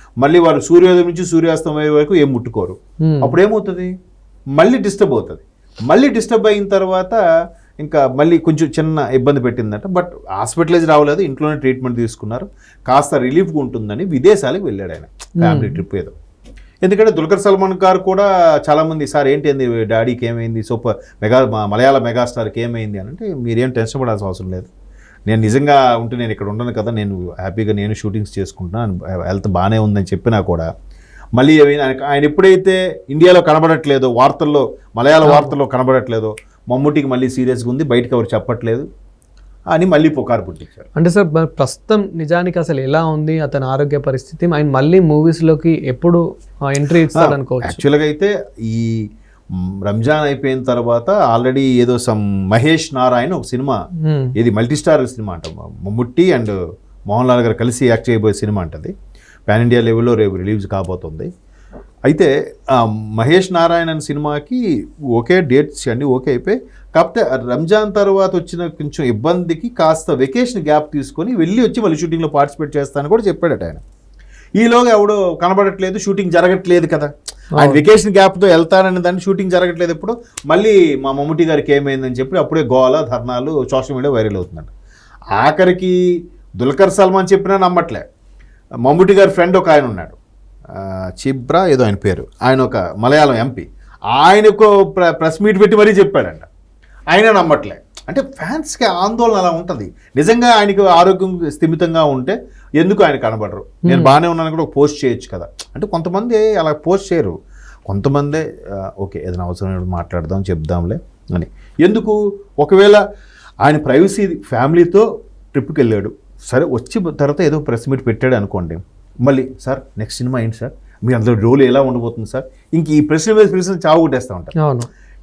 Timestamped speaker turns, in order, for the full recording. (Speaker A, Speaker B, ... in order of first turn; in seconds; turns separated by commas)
Speaker A: 0.2-3.9, Speaker B: 3.0-3.3, Speaker A: 4.6-7.2, Speaker A: 7.8-16.1, Speaker B: 15.4-15.8, Speaker A: 16.8-24.7, Speaker A: 25.3-30.7, Speaker A: 31.4-38.9, Speaker B: 35.2-35.5, Speaker A: 39.7-40.9, Speaker B: 41.0-47.8, Speaker A: 47.1-49.0, Speaker A: 49.6-53.8, Speaker B: 54.0-54.3, Speaker A: 54.4-56.5, Speaker A: 57.1-58.9, Speaker A: 59.5-61.3, Speaker A: 62.1-64.6, Speaker A: 65.1-73.8, Speaker A: 74.6-84.7, Speaker B: 77.5-77.8, Speaker A: 85.3-86.0, Speaker A: 86.6-88.0, Speaker A: 88.8-90.2, Speaker A: 90.7-96.5, Speaker A: 97.1-107.3, Speaker B: 103.8-104.1, Speaker A: 107.9-113.0, Speaker A: 113.6-124.5, Speaker B: 124.6-124.9